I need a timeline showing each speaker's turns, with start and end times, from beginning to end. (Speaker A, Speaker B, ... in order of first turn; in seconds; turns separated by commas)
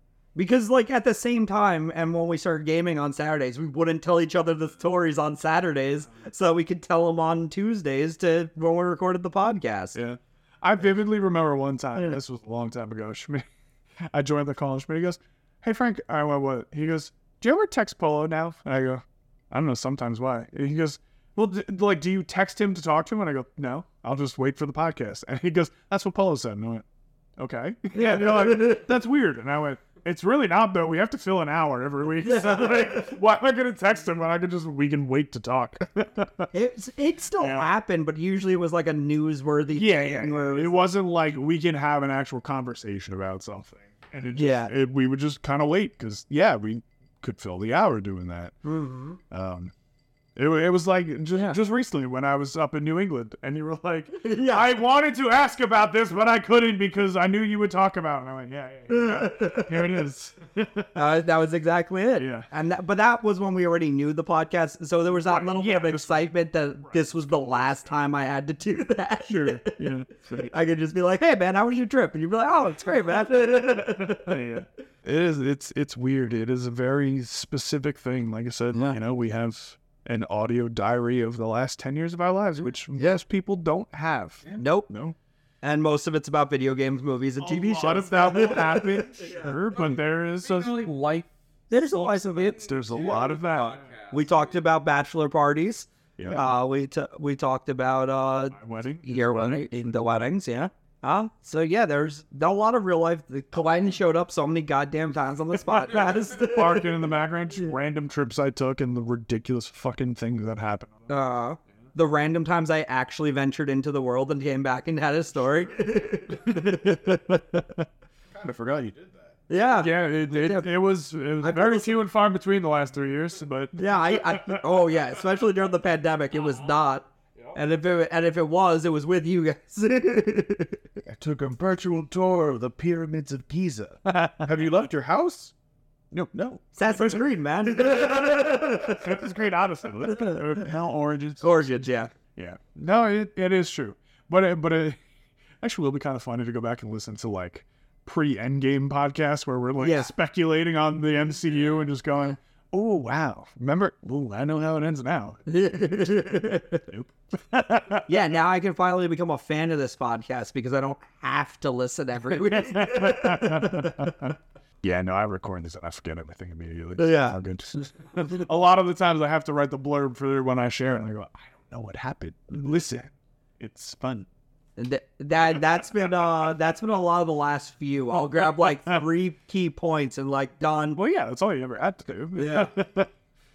Speaker A: 0.3-10.0, Speaker B: 9.9-13.4, Speaker B: 14.1-26.9, Speaker B: 27.4-36.5, Speaker A: 27.9-28.9, Speaker A: 32.2-33.1, Speaker A: 36.5-40.8, Speaker B: 37.4-37.7, Speaker B: 39.8-48.6, Speaker A: 44.4-44.7, Speaker A: 48.6-49.2, Speaker B: 49.3-49.7, Speaker B: 50.4-60.9, Speaker A: 54.2-54.7, Speaker A: 58.9-60.0, Speaker A: 61.0-69.8, Speaker B: 62.2-62.5, Speaker B: 65.2-66.3, Speaker B: 66.8-67.8, Speaker B: 69.3-70.5, Speaker A: 70.4-74.3, Speaker B: 74.2-85.2, Speaker A: 78.7-79.0, Speaker A: 84.6-84.9, Speaker A: 85.6-89.3, Speaker B: 87.4-90.9, Speaker C: 89.2-91.3, Speaker A: 91.7-92.9, Speaker B: 92.6-93.8, Speaker C: 92.9-94.5, Speaker A: 94.1-107.0, Speaker B: 96.2-96.5, Speaker B: 98.5-99.6, Speaker B: 106.0-111.0, Speaker A: 111.1-117.6, Speaker D: 118.3-119.3, Speaker A: 119.5-120.7, Speaker B: 119.8-124.6, Speaker A: 121.4-122.0, Speaker A: 123.8-130.8, Speaker D: 131.1-135.5, Speaker D: 136.3-136.6, Speaker A: 136.8-139.0, Speaker B: 138.8-141.6, Speaker A: 140.0-140.7, Speaker A: 141.4-142.1, Speaker B: 142.4-145.0, Speaker B: 145.6-155.4, Speaker A: 149.8-150.1, Speaker A: 155.5-156.8, Speaker B: 156.9-158.1, Speaker A: 158.1-164.2, Speaker B: 162.5-174.3, Speaker A: 167.0-167.4, Speaker A: 174.8-181.0, Speaker B: 181.0-183.1, Speaker A: 182.4-182.7